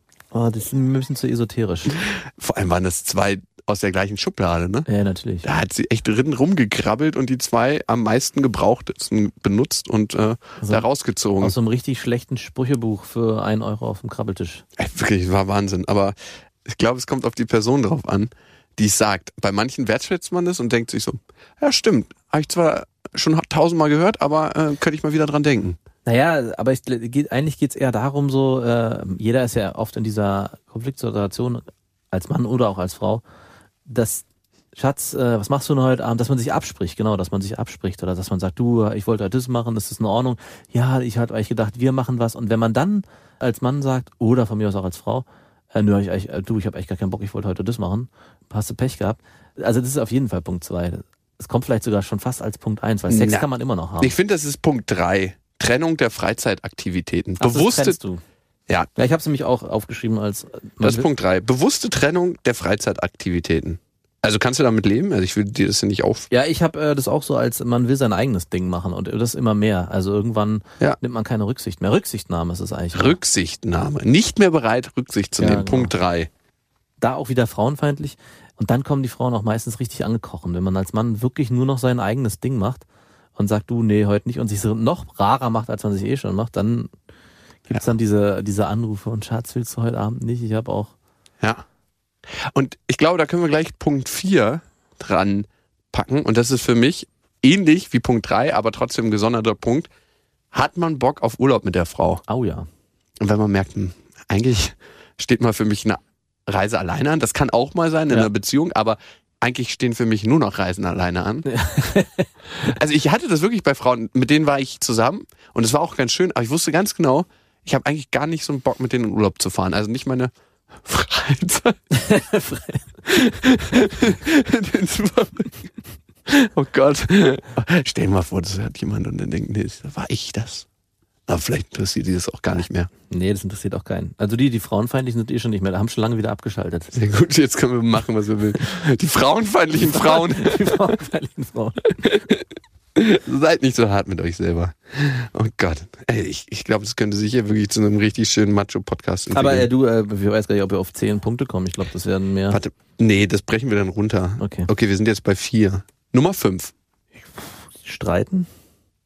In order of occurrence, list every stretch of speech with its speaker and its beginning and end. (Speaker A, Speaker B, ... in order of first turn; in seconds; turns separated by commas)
Speaker A: 0.3-2.0, Speaker B: 2.0-4.9, Speaker A: 4.9-5.5, Speaker B: 5.4-11.6, Speaker A: 10.6-10.9, Speaker A: 11.4-14.6, Speaker B: 14.8-25.8, Speaker A: 26.1-33.2, Speaker A: 33.9-34.2, Speaker A: 34.8-54.1, Speaker B: 53.1-53.5, Speaker B: 54.0-58.0, Speaker A: 57.4-58.2, Speaker A: 59.0-61.1, Speaker B: 60.8-66.3, Speaker A: 66.3-73.2, Speaker B: 72.9-76.3, Speaker A: 75.4-75.9, Speaker A: 77.0-82.8, Speaker A: 83.4-86.9, Speaker A: 87.7-90.9, Speaker B: 92.5-99.9, Speaker B: 100.5-102.2, Speaker A: 102.3-102.7, Speaker B: 103.2-111.5, Speaker A: 111.5-112.3, Speaker B: 112.6-120.3, Speaker B: 120.8-121.8, Speaker A: 121.9-122.8, Speaker B: 123.1-125.7, Speaker B: 126.3-130.7, Speaker B: 131.3-132.9, Speaker A: 133.1-136.9, Speaker B: 136.9-140.8, Speaker A: 139.8-141.9, Speaker B: 142.0-142.4, Speaker B: 143.0-149.7, Speaker A: 149.3-152.6, Speaker B: 152.5-156.7, Speaker A: 154.4-154.7, Speaker A: 157.2-158.5